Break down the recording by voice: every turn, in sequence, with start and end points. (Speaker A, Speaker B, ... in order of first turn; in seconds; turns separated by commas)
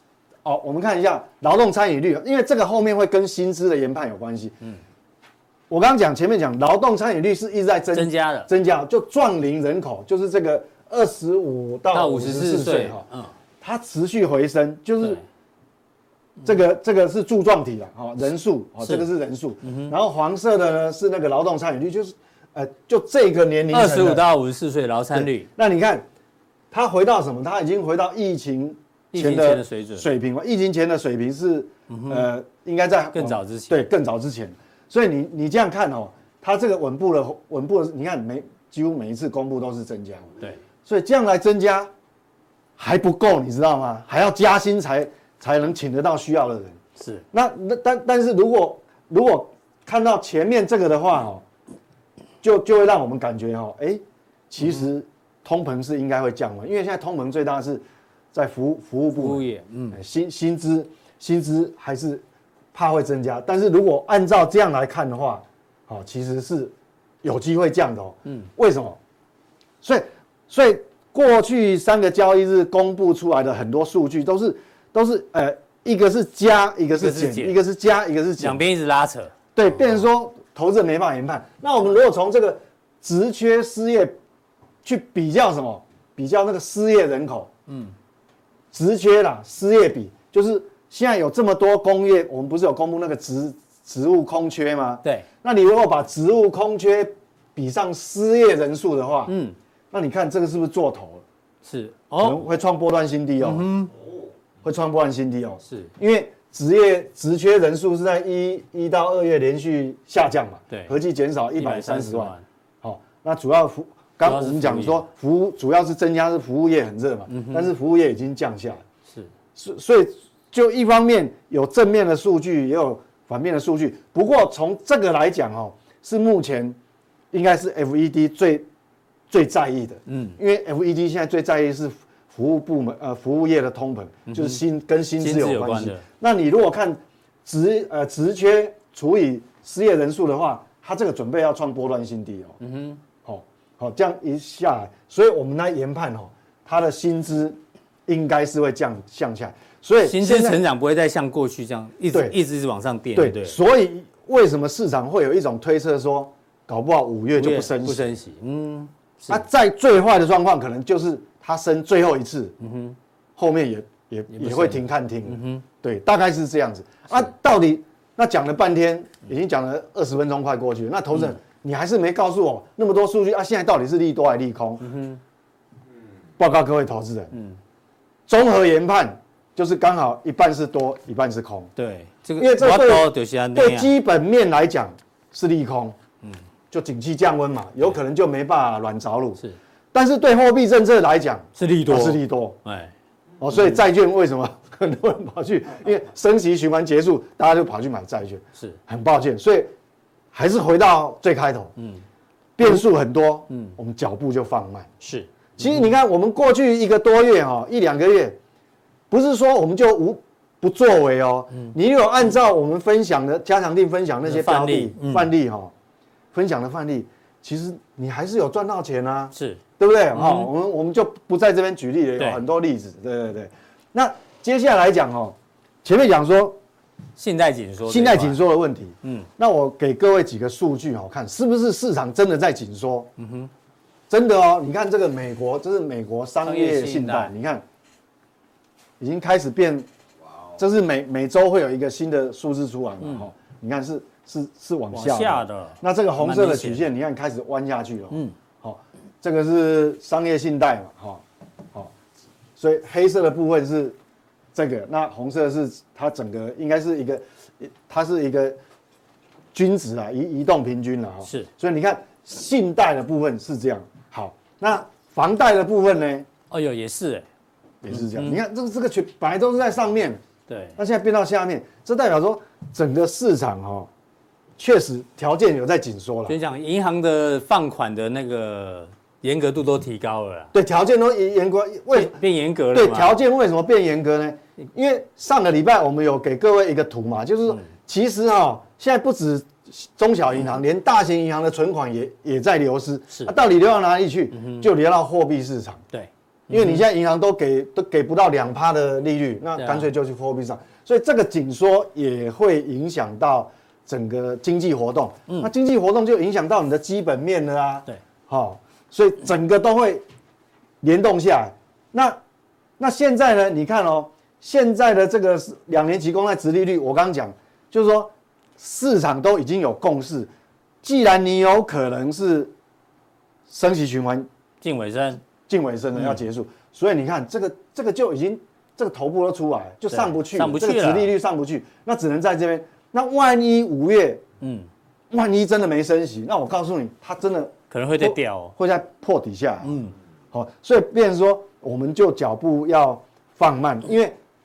Speaker A: 0.4-4.6, Speaker A: 5.7-13.1, Speaker B: 7.9-8.5, Speaker B: 11.9-13.3, Speaker A: 13.6-15.2, Speaker A: 16.4-24.3, Speaker B: 19.6-19.9, Speaker B: 23.7-25.5, Speaker A: 25.1-26.1, Speaker A: 26.7-41.9, Speaker B: 29.1-30.1, Speaker B: 31.9-32.3, Speaker B: 33.1-33.8, Speaker A: 42.8-46.8, Speaker B: 47.0-47.2, Speaker A: 47.3-51.4, Speaker A: 52.4-69.0, Speaker B: 59.1-60.0, Speaker A: 69.8-78.6, Speaker B: 77.0-77.6, Speaker B: 78.4-79.3, Speaker A: 79.5-84.2, Speaker A: 84.8-87.5, Speaker B: 87.7-87.9, Speaker A: 88.7-99.3, Speaker B: 99.3-99.6, Speaker A: 99.9-101.2, Speaker B: 101.6-102.4, Speaker A: 102.2-103.7, Speaker B: 103.4-103.9, Speaker A: 104.6-118.8, Speaker B: 105.7-105.9, Speaker B: 111.6-112.4, Speaker B: 114.2-115.0, Speaker B: 117.3-117.7, Speaker A: 119.5-126.8, Speaker A: 127.3-128.7, Speaker A: 129.3-142.6, Speaker B: 130.1-130.4, Speaker B: 134.3-134.6, Speaker B: 135.2-136.0, Speaker B: 142.6-143.0, Speaker A: 143.2-150.6, Speaker B: 150.0-153.6, Speaker A: 152.1-152.4, Speaker A: 153.2-158.1, Speaker B: 157.4-159.4, Speaker A: 159.3-162.6, Speaker B: 162.6-163.0, Speaker A: 163.4-174.9, Speaker B: 164.3-165.6, Speaker B: 174.8-175.2, Speaker A: 176.4-177.3, Speaker B: 177.3-177.6, Speaker A: 178.3-181.7, Speaker B: 181.8-183.9, Speaker A: 182.4-186.0, Speaker A: 186.7-189.4, Speaker A: 189.9-192.6, Speaker B: 191.6-192.9, Speaker A: 193.4-199.7, Speaker A: 200.3-201.7, Speaker B: 201.8-202.0, Speaker A: 202.6-204.9, Speaker B: 203.5-203.8, Speaker B: 205.0-205.9, Speaker A: 205.6-208.4, Speaker A: 209.1-215.7, Speaker B: 214.2-215.3, Speaker A: 216.3-226.6, Speaker B: 219.3-219.6, Speaker B: 220.1-220.5, Speaker B: 227.2-228.4, Speaker A: 227.9-233.1, Speaker B: 229.0-229.3, Speaker B: 233.2-233.5, Speaker A: 234.1-237.6, Speaker B: 236.4-237.3, Speaker A: 239.0-239.9, Speaker A: 240.6-251.2, Speaker B: 244.9-246.9, Speaker A: 252.6-254.0, Speaker A: 254.6-258.6, Speaker A: 259.5-266.3, Speaker B: 261.2-261.5, Speaker B: 266.5-267.3, Speaker A: 267.8-270.2, Speaker B: 267.9-268.4, Speaker B: 270.5-270.8, Speaker A: 270.8-273.9, Speaker A: 274.6-276.4, Speaker B: 276.3-280.5, Speaker A: 280.5-282.2, Speaker B: 281.9-283.2, Speaker A: 282.7-295.8, Speaker B: 294.3-294.7, Speaker B: 295.9-296.8, Speaker A: 296.5-310.0, Speaker B: 299.6-299.9, Speaker A: 310.8-312.2, Speaker A: 312.8-320.3, Speaker A: 320.8-322.5, Speaker A: 323.5-324.3, Speaker B: 324.6-325.2, Speaker A: 325.5-334.2, Speaker B: 329.9-331.1, Speaker B: 334.4-334.7, Speaker A: 335.1-339.8, Speaker B: 337.7-338.6, Speaker B: 339.6-339.9, Speaker A: 340.3-344.2